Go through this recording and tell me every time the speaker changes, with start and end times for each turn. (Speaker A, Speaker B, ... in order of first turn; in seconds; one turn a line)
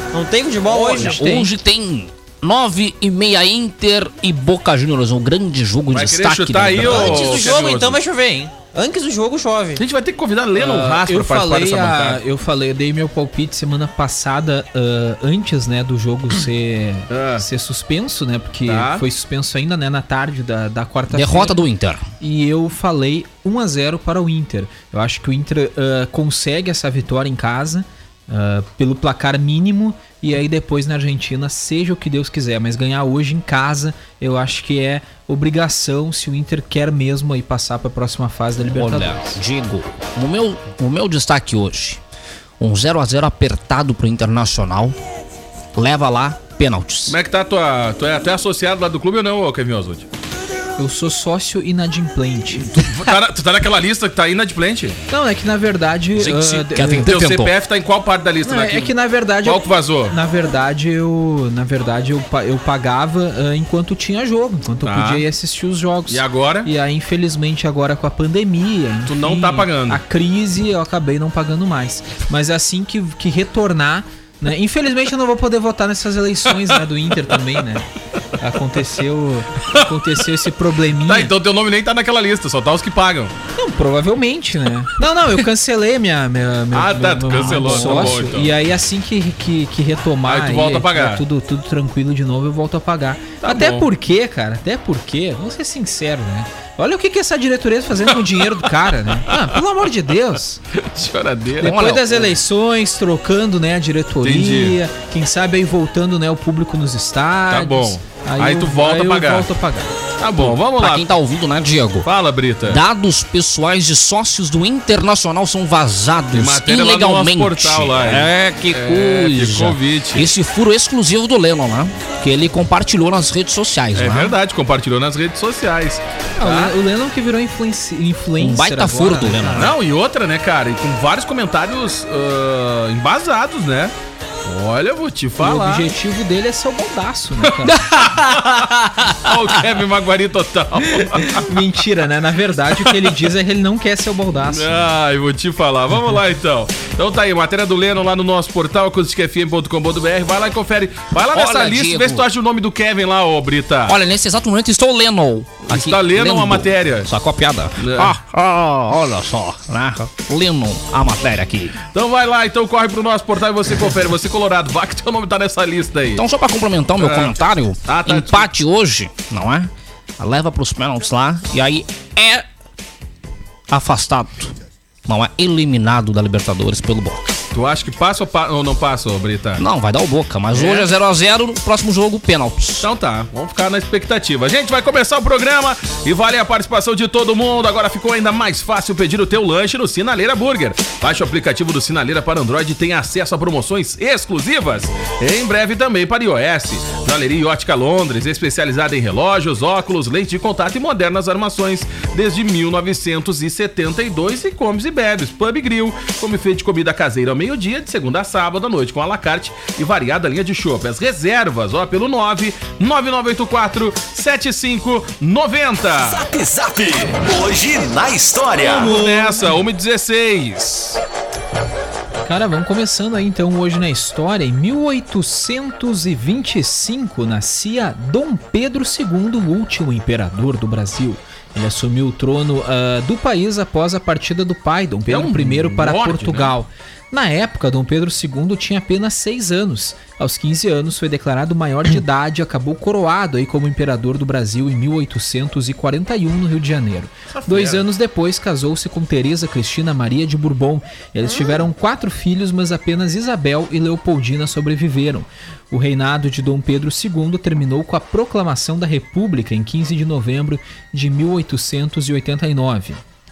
Speaker A: 0.1-1.5
Speaker B: 0.7-1.3
Speaker C: 0.9-7.5
Speaker D: 5.9-8.0
Speaker A: 6.8-9.8
Speaker D: 9.8-12.2
Speaker B: 10.6-21.6
Speaker D: 17.1-17.5
Speaker D: 18.6-19.1
Speaker C: 21.1-22.1
Speaker B: 22.2-39.4
Speaker C: 38.8-42.0
Speaker C: 42.6-45.0
Speaker C: 45.8-47.2
Speaker D: 47.1-50.1
Speaker B: 50.8-53.1
Speaker D: 52.6-55.0
Speaker B: 55.1-57.1
Speaker C: 56.2-57.5
Speaker D: 57.0-60.2
Speaker B: 58.4-77.9
Speaker D: 64.8-65.3
Speaker D: 66.1-66.7
Speaker D: 69.0-70.0
Speaker B: 78.4-81.3
Speaker D: 81.0-83.3
Speaker B: 83.6-100.6
Speaker D: 86.7-88.5
Speaker C: 87.4-88.2
Speaker D: 90.2-91.2
Speaker D: 93.4-93.9
Speaker D: 100.8-101.8
Speaker B: 101.6-109.9
Speaker C: 101.6-102.3
Speaker D: 104.2-104.8
Speaker D: 107.5-109.5
Speaker D: 110.2-111.2
Speaker C: 110.4-112.1
Speaker D: 112.0-112.8
Speaker C: 112.7-124.4
Speaker D: 116.3-120.3
Speaker D: 123.9-126.8
Speaker B: 126.4-129.7
Speaker C: 128.4-129.8
Speaker D: 129.5-133.9
Speaker D: 134.4-135.9
Speaker B: 135.4-137.9
Speaker D: 137.4-141.6
Speaker B: 141.2-144.9
Speaker D: 142.7-143.2
Speaker D: 144.5-154.0
Speaker C: 151.3-152.3
Speaker C: 153.9-161.8
Speaker D: 155.6-157.1
Speaker D: 157.8-158.2
Speaker D: 161.9-166.2
Speaker C: 166.2-172.4
Speaker D: 167.0-168.6
Speaker C: 173.7-174.5
Speaker C: 175.1-177.2
Speaker D: 177.5-179.7
Speaker C: 179.6-182.9
Speaker D: 180.5-180.9
Speaker D: 182.8-216.3
Speaker E: 216.1-218.9
Speaker C: 218.6-219.6
Speaker D: 218.8-221.0
Speaker B: 222.3-263.0
Speaker D: 235.1-236.6
Speaker D: 247.3-247.9